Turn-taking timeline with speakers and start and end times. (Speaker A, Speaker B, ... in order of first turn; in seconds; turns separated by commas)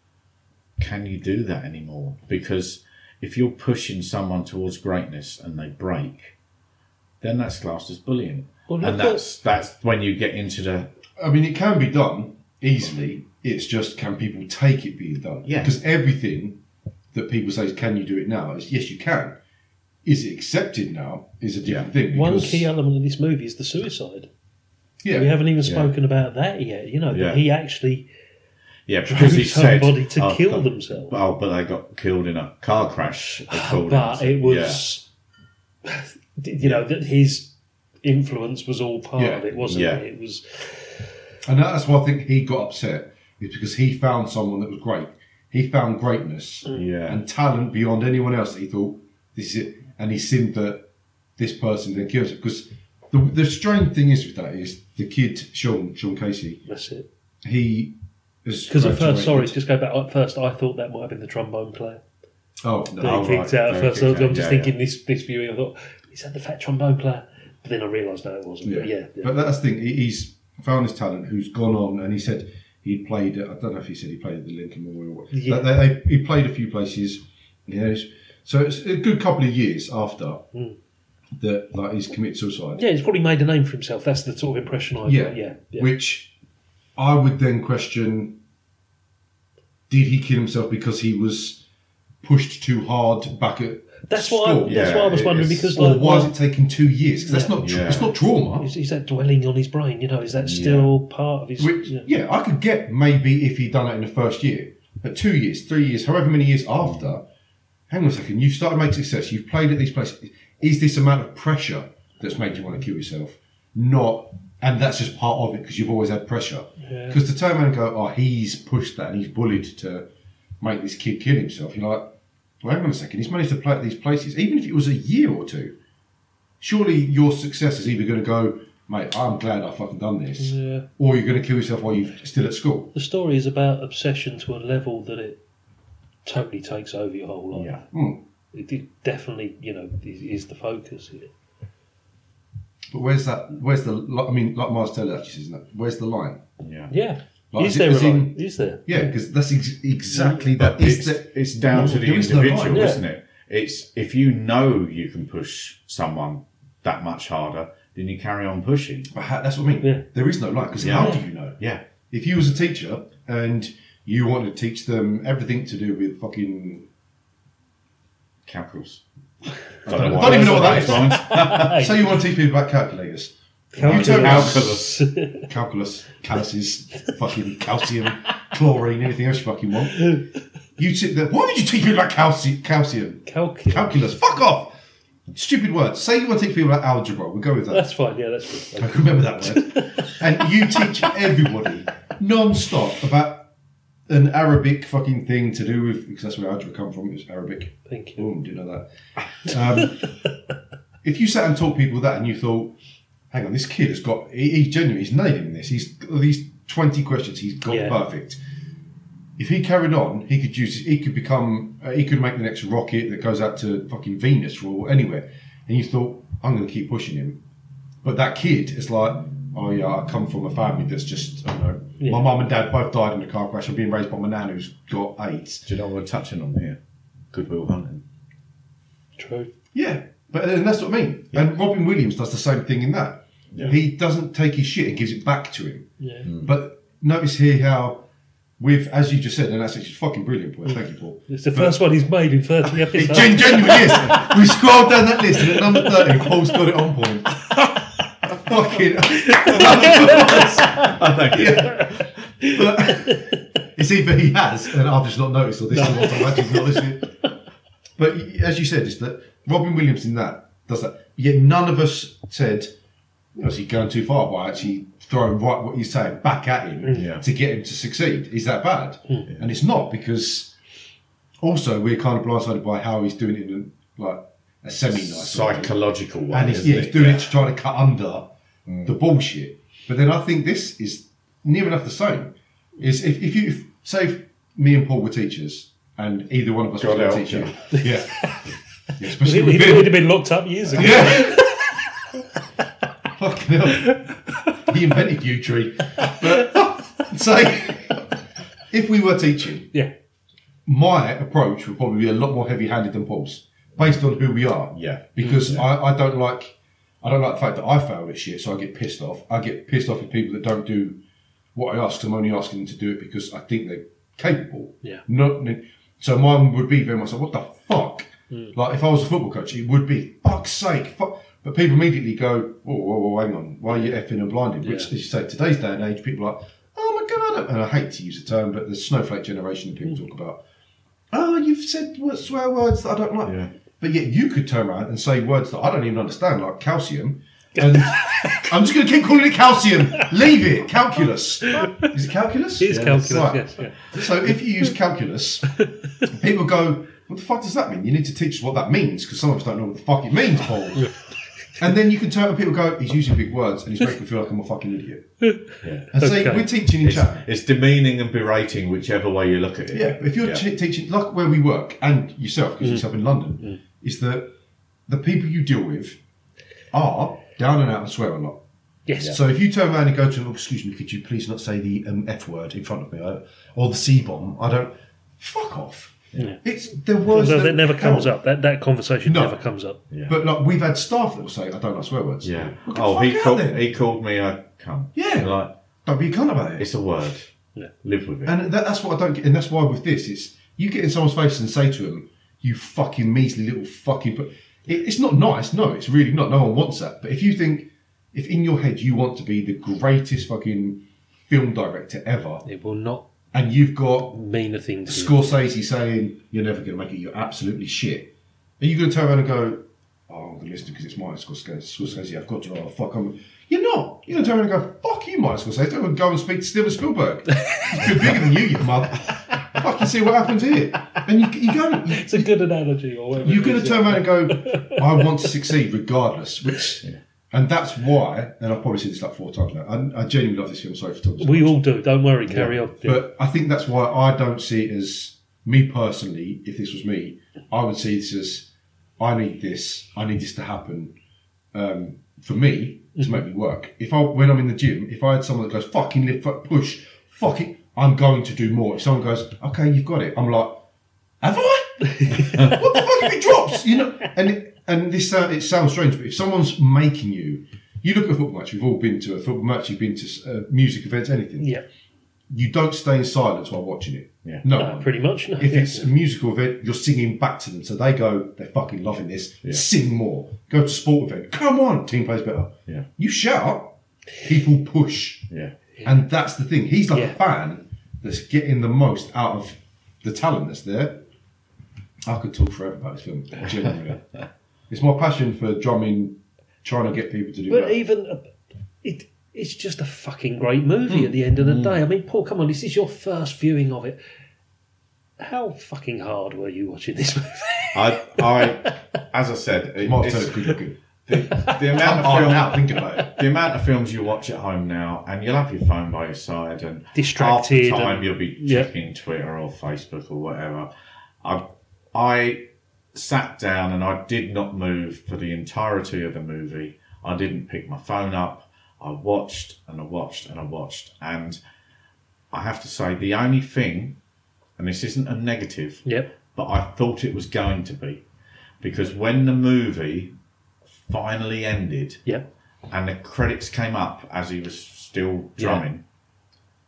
Speaker A: 0.8-6.3, Speaker A: 7.2-10.9, Speaker B: 8.7-9.2, Speaker C: 11.2-16.6, Speaker A: 15.4-15.7, Speaker C: 17.1-19.4, Speaker C: 20.0-22.7, Speaker A: 21.6-21.9, Speaker B: 22.1-24.3, Speaker C: 25.0-25.4, Speaker B: 25.1-28.1, Speaker A: 25.6-25.9, Speaker A: 27.1-27.4, Speaker A: 28.9-34.9, Speaker B: 29.1-31.2, Speaker B: 33.5-35.1, Speaker B: 35.8-40.9, Speaker C: 39.1-39.5, Speaker A: 39.6-40.0, Speaker C: 41.4-50.9, Speaker A: 46.7-47.2, Speaker C: 51.4-56.6, Speaker B: 56.7-57.1, Speaker C: 57.4-59.6, Speaker B: 58.7-62.0, Speaker C: 62.6-63.4, Speaker A: 63.0-64.7, Speaker B: 63.0-69.3, Speaker C: 68.6-80.4, Speaker B: 75.3-75.7, Speaker C: 81.4-82.8, Speaker B: 82.8-85.9, Speaker C: 85.0-86.3, Speaker C: 87.0-88.3, Speaker C: 89.9-91.6, Speaker C: 92.2-98.7, Speaker B: 94.1-96.3, Speaker A: 94.6-95.5, Speaker B: 97.3-97.7, Speaker A: 97.6-98.1, Speaker B: 98.6-102.0, Speaker A: 100.4-100.9, Speaker C: 101.6-107.2, Speaker C: 107.9-120.0, Speaker B: 116.8-117.2, Speaker C: 120.6-122.1, Speaker C: 122.6-125.7, Speaker C: 126.6-132.9, Speaker B: 130.4-130.8, Speaker B: 132.9-135.4, Speaker B: 136.2-137.8, Speaker A: 137.5-137.8, Speaker C: 137.9-138.2, Speaker B: 138.5-141.3, Speaker C: 142.9-146.4, Speaker A: 146.6-146.9, Speaker B: 146.9-149.1, Speaker C: 147.5-153.0, Speaker B: 150.1-150.4, Speaker A: 150.6-159.1, Speaker B: 151.7-152.0, Speaker B: 152.7-153.0, Speaker C: 159.1-161.6, Speaker A: 160.8-161.8, Speaker C: 162.1-166.8, Speaker A: 168.4-169.0, Speaker A: 169.8-171.8, Speaker C: 169.8-174.8, Speaker B: 169.9-172.1, Speaker B: 173.7-175.4, Speaker A: 173.8-175.0, Speaker C: 175.4-180.2, Speaker C: 180.8-184.7, Speaker B: 183.3-183.9, Speaker C: 185.3-187.9, Speaker B: 187.7-190.9, Speaker C: 188.8-193.5, Speaker C: 194.1-200.1, Speaker B: 197.9-198.3, Speaker B: 199.5-199.8, Speaker C: 201.0-202.7, Speaker C: 203.3-208.4, Speaker B: 207.7-208.0, Speaker C: 209.4-217.4, Speaker C: 218.0-225.7, Speaker B: 222.0-222.3, Speaker A: 225.7-226.8, Speaker A: 227.3-228.0, Speaker B: 229.2-229.5, Speaker C: 229.7-238.0, Speaker B: 236.0-236.3, Speaker A: 236.2-236.5, Speaker C: 238.6-241.8, Speaker B: 241.3-244.4, Speaker C: 242.8-247.5, Speaker B: 245.4-246.0, Speaker C: 248.3-257.1, Speaker B: 249.2-250.9, Speaker A: 249.5-251.9, Speaker B: 255.7-256.8, Speaker C: 258.0-262.7, Speaker C: 263.4-270.5, Speaker A: 266.9-267.2, Speaker C: 271.4-275.7, Speaker A: 274.9-277.4, Speaker C: 276.3-278.3, Speaker A: 278.7-278.9, Speaker C: 278.8-288.3, Speaker A: 286.8-287.5, Speaker B: 287.7-288.4, Speaker C: 289.0-290.1, Speaker B: 289.1-291.5, Speaker C: 290.7-291.6, Speaker C: 293.1-294.1, Speaker C: 294.6-298.0, Speaker C: 298.7-299.7, Speaker C: 300.6-311.0, Speaker A: 304.7-305.7, Speaker C: 311.5-330.4, Speaker B: 323.7-324.0, Speaker B: 324.6-324.9, Speaker C: 331.1-350.9, Speaker A: 333.2-333.5, Speaker B: 337.6-338.5, Speaker B: 341.5-341.9, Speaker B: 342.6-344.4, Speaker C: 351.6-355.1, Speaker B: 355.2-356.5, Speaker A: 355.6-355.9, Speaker C: 355.9-357.2, Speaker A: 356.8-360.4, Speaker C: 359.7-364.3, Speaker C: 364.9-366.0, Speaker C: 366.7-368.4, Speaker B: 368.9-369.2, Speaker C: 369.0-378.1, Speaker B: 377.1-379.8, Speaker C: 379.0-379.4, Speaker A: 379.9-380.2, Speaker C: 380.1-383.6, Speaker A: 382.2-385.5, Speaker C: 384.9-385.3, Speaker C: 385.9-386.7, Speaker A: 386.6-387.3, Speaker A: 387.8-388.4, Speaker C: 388.2-402.4, Speaker B: 402.4-403.1, Speaker C: 403.3-404.2, Speaker B: 404.1-405.4, Speaker C: 404.9-422.3, Speaker B: 421.9-424.7, Speaker C: 423.2-431.6, Speaker B: 431.2-433.1, Speaker C: 432.3-440.9, Speaker C: 441.5-450.6, Speaker B: 443.0-443.2, Speaker C: 451.2-461.5, Speaker B: 451.9-452.6, Speaker B: 461.4-461.6, Speaker C: 462.3-475.3, Speaker B: 464.5-465.9, Speaker C: 475.8-481.0, Speaker B: 476.9-477.2, Speaker C: 482.0-484.0, Speaker C: 484.7-487.8, Speaker B: 487.5-488.3, Speaker B: 488.8-494.0, Speaker A: 491.4-491.8, Speaker B: 495.2-498.5, Speaker A: 497.7-500.5, Speaker C: 499.8-503.1, Speaker A: 501.1-510.7, Speaker B: 506.9-508.7, Speaker A: 511.2-521.4, Speaker A: 522.3-524.0, Speaker A: 524.6-528.0, Speaker A: 528.6-530.1, Speaker A: 530.8-532.0, Speaker A: 532.7-535.8, Speaker B: 535.4-535.6